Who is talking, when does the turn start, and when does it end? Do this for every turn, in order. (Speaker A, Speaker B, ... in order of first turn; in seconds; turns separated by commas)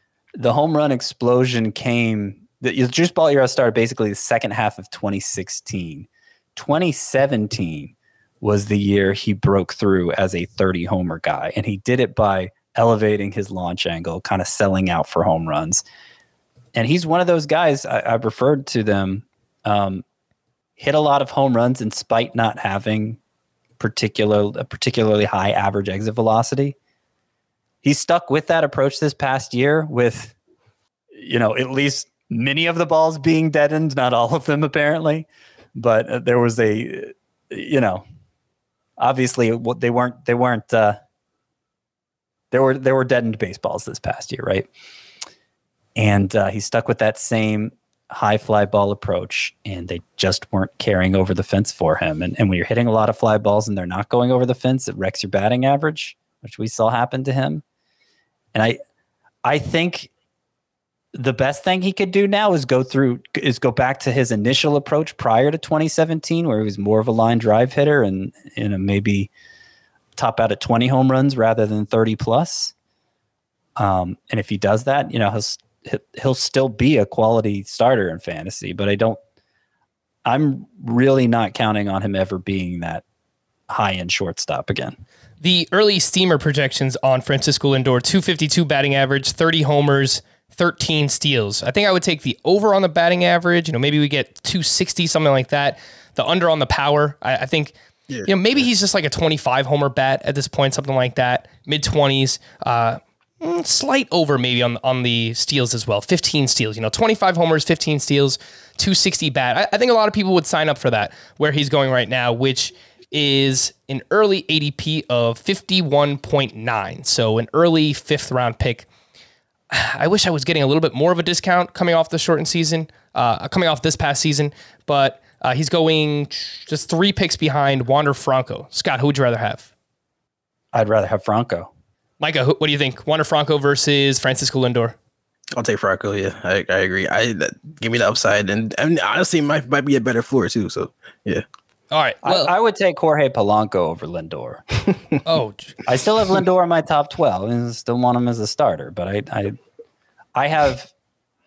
Speaker A: 0.4-15.8, Speaker A: 16.7-20.0, Speaker A: 20.8-23.2, Speaker A: 23.8-26.8, Speaker A: 27.8-30.3, Speaker A: 31.1-38.0, Speaker A: 39.0-41.0, Speaker A: 42.5-44.7, Speaker A: 46.0-57.6, Speaker A: 58.5-58.8, Speaker A: 59.4-60.1, Speaker A: 61.1-69.3, Speaker A: 70.2-72.7, Speaker A: 73.8-79.2, Speaker A: 80.2-83.0, Speaker A: 83.7-85.0, Speaker B: 85.4-97.7, Speaker B: 98.2-118.9, Speaker B: 119.7-129.7, Speaker A: 130.7-131.7, Speaker B: 132.2-134.9, Speaker C: 135.5-141.4, Speaker B: 141.9-142.5, Speaker A: 142.2-144.6, Speaker B: 145.2-145.7, Speaker A: 145.8-149.6, Speaker A: 150.3-150.9